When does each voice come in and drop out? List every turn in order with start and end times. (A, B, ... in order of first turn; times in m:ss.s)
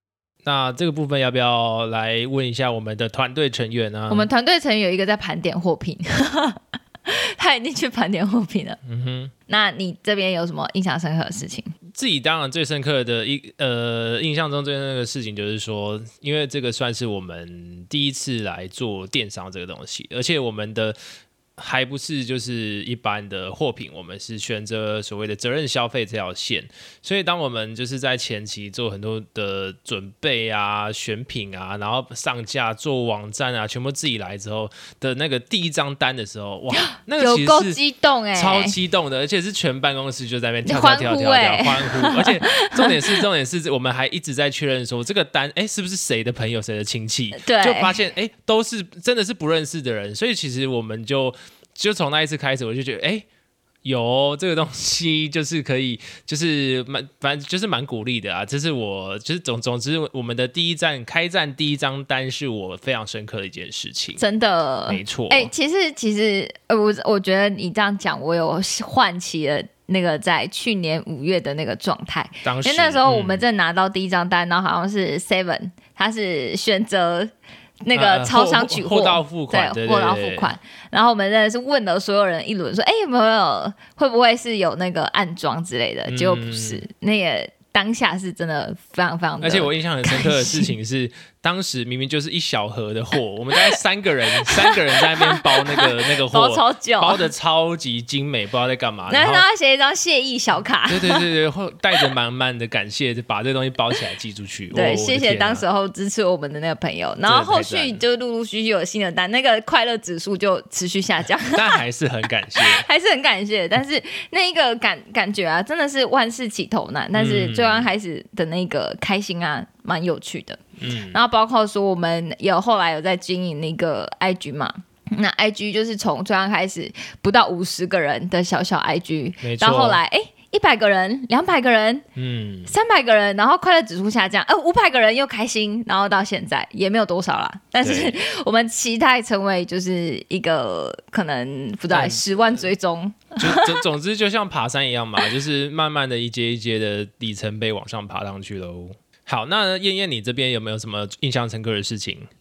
0:00.4-0:04.3 A
0:04.1-0:08.8 B
0:08.8-0:09.3 A
0:09.5-0:11.7 B
0:12.0-0:21.0 A
0:21.6-0:37.8 A
0:37.2-0:38.8 B
0:38.3-0:53.3 A
0:40.6-0:43.2 B
0:47.3-0:48.0 B
0:53.8-1:04.2 A
1:04.2-1:17.3 B
1:04.9-1:05.5 A
1:12.4-1:13.5 A
1:17.8-1:30.8 B
1:18.0-1:20.5 A
1:26.1-1:26.8 A
1:29.4-1:39.5 A
1:34.4-1:37.3 B
1:39.1-1:41.2 B
1:40.9-1:45.6 A
1:44.7-1:51.8 B
1:47.3-1:48.0 A
1:51.6-1:52.8 A
1:52.6-2:12.0 B
1:57.2-1:57.9 A
2:00.8-2:01.2 A
2:09.4-2:10.0 A
2:12.2-2:12.7 A
2:12.7-2:23.8 B
2:17.8-2:18.2 A
2:21.9-2:22.2 A
2:23.4-2:32.3 A